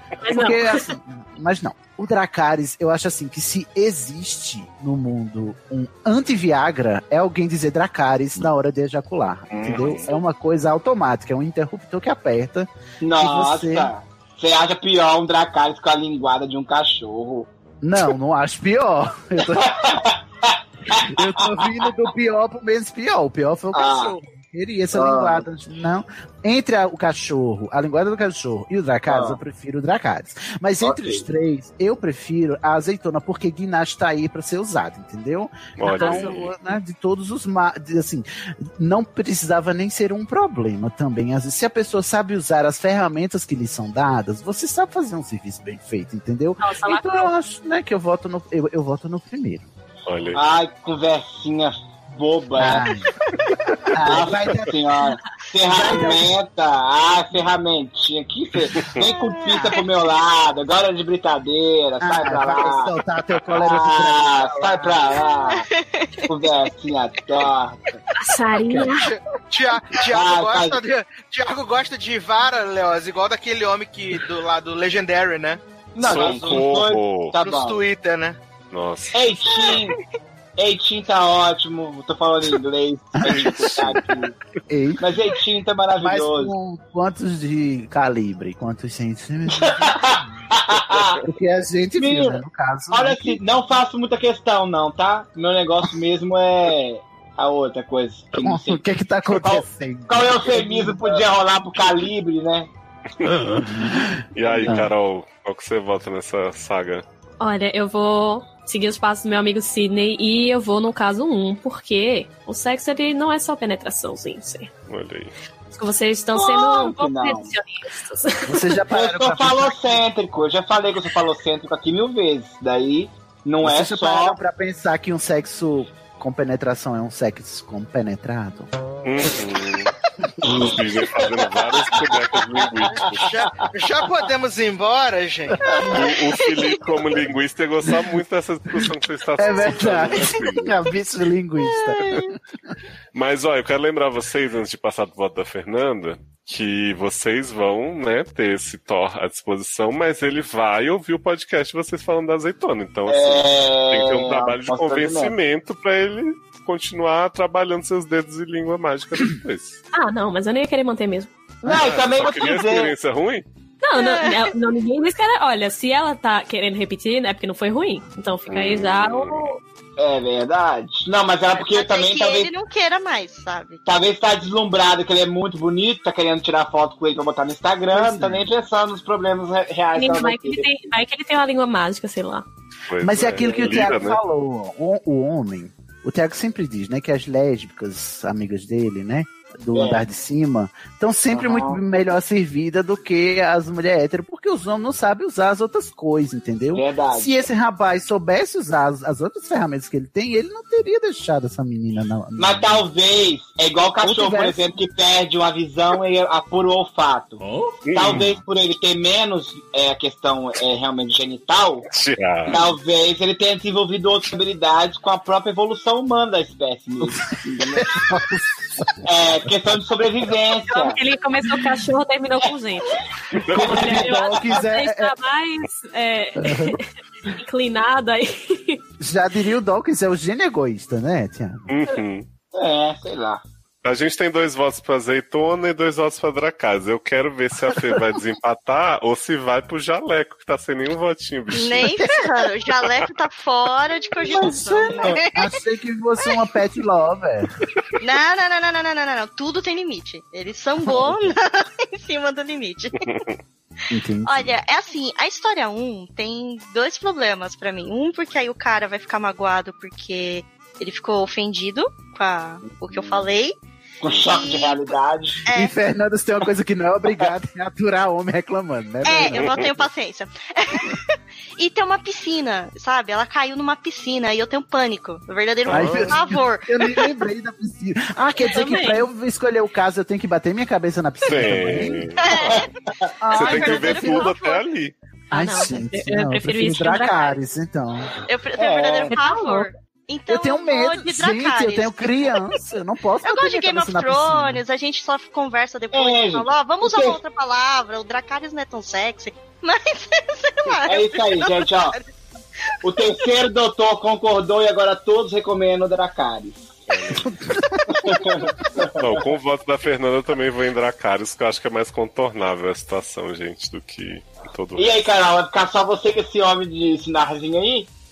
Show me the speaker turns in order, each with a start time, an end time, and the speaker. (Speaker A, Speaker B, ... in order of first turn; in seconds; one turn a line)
Speaker A: 0.2-0.9
Speaker B: 0.3-13.9
Speaker C: 9.5-10.1
Speaker D: 13.0-17.5
Speaker B: 17.8-19.9
Speaker D: 19.5-21.5
Speaker B: 20.9-49.7
Speaker D: 23.7-24.2
Speaker D: 24.9-25.4
Speaker D: 29.1-29.4
Speaker D: 30.8-31.2
Speaker C: 35.8-36.5
Speaker A: 35.9-36.5
Speaker A: 46.6-47.3
Speaker C: 50.1-50.4
Speaker D: 50.3-52.9
Speaker B: 52.6-53.1
Speaker B: 53.9-54.8
Speaker D: 53.9-62.9
Speaker B: 55.6-56.3
Speaker B: 59.5-59.8
Speaker B: 62.0-65.0
Speaker D: 63.5-65.7
Speaker E: 65.5-66.5
Speaker D: 66.3-68.0
Speaker A: 68.2-69.1
Speaker B: 68.6-69.0
Speaker F: 69.0-76.7
Speaker D: 70.1-70.8
Speaker D: 76.0-77.8
Speaker C: 76.0-77.3
Speaker F: 77.4-78.4
Speaker C: 78.7-79.2
Speaker D: 79.1-80.0
Speaker E: 79.4-80.0
Speaker D: 80.6-84.4
Speaker B: 83.2-83.5
Speaker C: 83.2-84.0
Speaker B: 84.7-85.0
Speaker D: 85.0-86.5
Speaker B: 86.0-93.4
Speaker D: 89.6-91.2
Speaker D: 92.0-102.7
Speaker B: 98.4-101.2
Speaker C: 103.2-103.5
Speaker B: 103.3-104.9
Speaker C: 104.3-107.0
Speaker D: 104.4-104.8
Speaker A: 107.4-114.7
Speaker C: 114.9-115.3
Speaker A: 115.7-118.7
Speaker D: 116.3-117.5
Speaker B: 118.5-120.0
Speaker D: 118.9-124.4
Speaker B: 123.6-128.7
Speaker C: 129.0-129.9
Speaker D: 130.4-131.5
Speaker C: 130.4-133.2
Speaker F: 133.1-135.6
Speaker D: 133.2-133.7
Speaker B: 135.5-136.0
Speaker C: 135.9-140.7
Speaker E: 136.0-136.8
Speaker B: 137.9-138.2
Speaker B: 138.8-142.7
Speaker E: 141.6-142.3
Speaker C: 143.1-159.8
Speaker D: 153.1-155.3
Speaker A: 159.9-161.3
Speaker D: 161.6-162.9
Speaker C: 161.6-163.5
Speaker A: 163.8-169.6
Speaker E: 163.9-164.5
Speaker C: 168.5-169.5
Speaker D: 170.0-172.5
Speaker E: 171.6-173.8
Speaker D: 173.8-180.6
Speaker B: 177.9-178.5
Speaker A: 180.0-182.5
Speaker C: 182.9-184.2
Speaker B: 183.0-202.8
Speaker D: 183.2-184.0
Speaker D: 189.7-190.1
Speaker D: 191.3-191.8
Speaker D: 196.7-197.5
Speaker D: 202.4-211.9
Speaker B: 204.0-204.6
Speaker C: 207.8-208.3
Speaker C: 211.9-212.6
Speaker D: 212.5-218.0
Speaker B: 217.7-219.5
Speaker D: 219.1-221.0
Speaker A: 220.7-222.9
Speaker D: 223.5-224.4
Speaker B: 223.5-225.1
Speaker A: 223.5-228.8
Speaker B: 226.4-226.8
Speaker B: 229.0-231.7
Speaker C: 231.7-232.3
Speaker D: 232.5-233.4
Speaker C: 233.8-241.9
Speaker B: 237.8-238.2
Speaker E: 241.5-245.6
Speaker B: 241.8-242.4
Speaker B: 244.3-247.5
Speaker E: 248.0-253.1
Speaker B: 250.9-251.1
Speaker C: 253.1-253.3
Speaker B: 253.9-254.5
Speaker E: 254.3-263.6
Speaker D: 264.0-265.4
Speaker E: 264.2-264.9
Speaker E: 265.5-265.7
Speaker B: 265.6-269.7
Speaker E: 269.0-271.0
Speaker C: 269.2-269.7
Speaker E: 271.6-277.2
Speaker C: 275.7-276.2
Speaker B: 275.7-282.1
Speaker A: 278.4-279.1
Speaker C: 281.2-282.6
Speaker E: 282.2-282.7
Speaker B: 283.2-284.3
Speaker E: 283.3-284.7
Speaker C: 283.4-284.9
Speaker A: 285.3-287.4
Speaker B: 285.3-288.1
Speaker E: 288.3-292.5
Speaker D: 288.6-289.1
Speaker A: 289.1-289.7
Speaker B: 290.3-294.6
Speaker E: 293.2-302.1
Speaker D: 295.9-297.2
Speaker D: 300.9-302.0
Speaker D: 302.8-306.8
Speaker C: 306.9-307.4
Speaker B: 307.4-308.2
Speaker D: 307.9-308.9
Speaker C: 309.0-315.0
Speaker D: 314.8-317.9